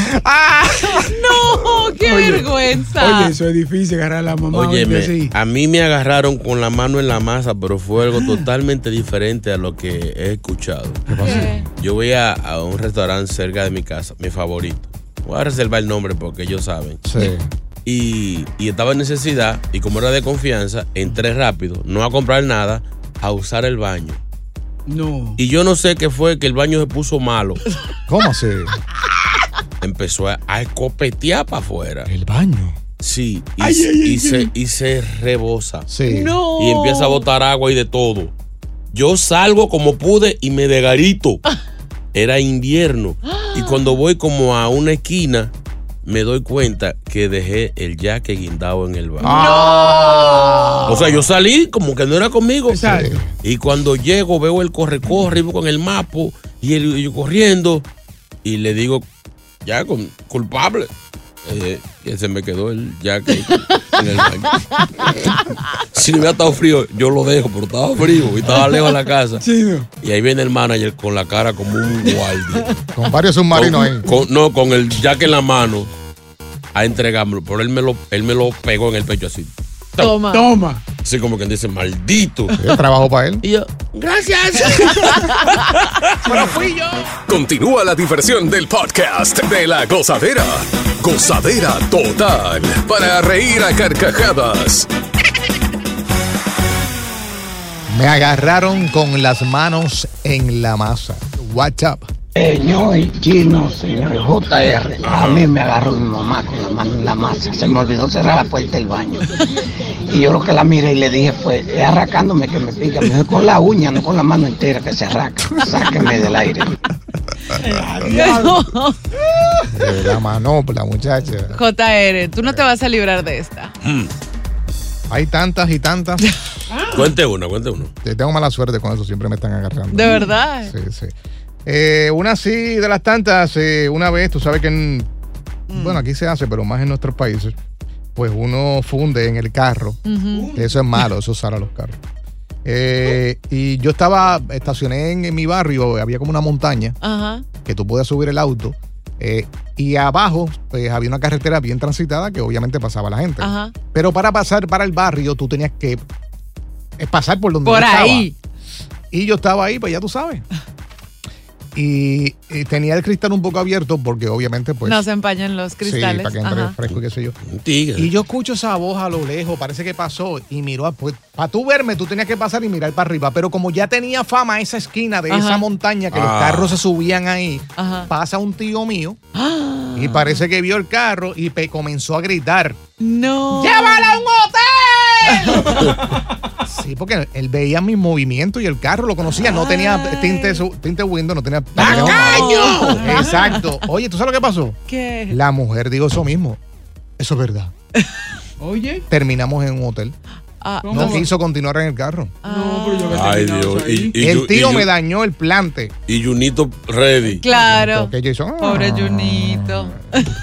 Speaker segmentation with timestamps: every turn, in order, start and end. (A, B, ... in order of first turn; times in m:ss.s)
0:00.8-0:03.3 A
0:02.0-0:05.3 B
0:04.5-0:11.1 C
0:11.1-0:11.4 B
0:11.1-0:11.6 D
0:11.2-0:11.6 A
0:11.7-0:17.0 C
0:17.0-0:17.4 D
0:17.8-0:24.2 C
0:24.9-0:25.4 B
0:25.4-0:27.6 C
0:28.1-0:28.8 D
0:29.8-0:32.1 C
0:32.1-0:32.8 D
0:33.0-0:35.9 C
0:33.6-0:34.5 B
0:35.9-0:36.4 D
0:36.0-0:37.2 A
0:36.6-0:38.3 C
0:38.9-0:41.4 C
0:42.1-0:45.5 C
0:43.2-0:44.0 A
0:46.0-0:49.4 C
0:49.2-0:51.2 D
0:49.2-0:50.8 A
0:50.8-0:57.8 C
0:52.7-0:53.2 B
0:52.8-0:53.3 D
0:58.4-0:59.0 C
0:59.6-1:00.9 C
1:01.4-1:05.1 C
1:03.5-1:03.8 A
1:04.5-1:05.4 A
1:05.9-1:09.4 C
1:09.4-1:09.9 B
1:10.0-1:12.8 C
1:12.9-1:14.1 D
1:13.5-1:15.9 C
1:16.7-1:20.1 C
1:20.0-1:20.5 A
1:20.3-1:20.8 B
1:21.0-1:22.6 C
1:22.6-1:23.4 D
1:23.4-1:26.1 C
1:25.2-1:25.6 A
1:26.2-1:27.0 D
1:26.2-1:26.5 B
1:27.3-1:34.9 E
1:37.9-1:42.0 D
1:42.4-1:49.3 F
1:45.0-1:45.4 C
1:50.1-1:56.8 F
1:57.5-1:58.7 B
1:58.1-1:59.0 A
1:59.3-1:59.7 B
1:59.7-2:01.6 D
2:01.5-2:03.7 A
2:03.8-2:04.1 C
2:05.1-2:06.4 D
2:06.7-2:07.0 B
2:06.9-2:07.9 C
2:08.0-2:11.1 D
2:09.9-2:10.7 A
2:11.6-2:15.1 D
2:15.7-2:16.0 B
2:15.7-2:17.6 D
2:18.2-2:20.0 D
2:20.0-2:20.6 A
2:20.3-2:20.6 B
2:20.5-2:22.0 D
2:22.6-2:27.0 D
2:27.0-2:27.4 A
2:27.6-2:36.0 D
2:33.4-2:33.7 A
2:37.0-2:38.3 D
2:37.6-2:38.3 A
2:39.1-2:40.4 D
2:41.7-2:45.0 D
2:44.8-2:46.8 A
2:45.8-2:47.4 D
2:47.4-2:48.1 C
2:48.0-2:59.2 D
2:55.3-2:55.6 A
2:56.1-2:56.8 C
2:57.8-2:58.1 A
2:59.3-3:00.4 A
2:59.9-3:02.8 D
3:03.0-3:04.2 A
3:05.3-3:05.9 A
3:05.5-3:05.9 B
3:06.6-3:14.8 D
3:09.4-3:10.6 A
3:11.8-3:13.6 B
3:11.8-3:13.6 A
3:14.9-3:15.4 A
3:15.3-3:16.6 D
3:17.2-3:17.7 D
3:18.6-3:19.0 B
3:19.1-3:20.2 D
3:20.6-3:21.2 A
3:20.8-3:21.2 B
3:20.8-3:22.4 D
3:22.4-3:23.2 A
3:22.4-3:24.2 B
3:23.1-3:24.9 C
3:24.2-3:25.9 D
3:26.1-3:27.4 C
3:27.4-3:30.3 A
3:27.5-3:30.2 D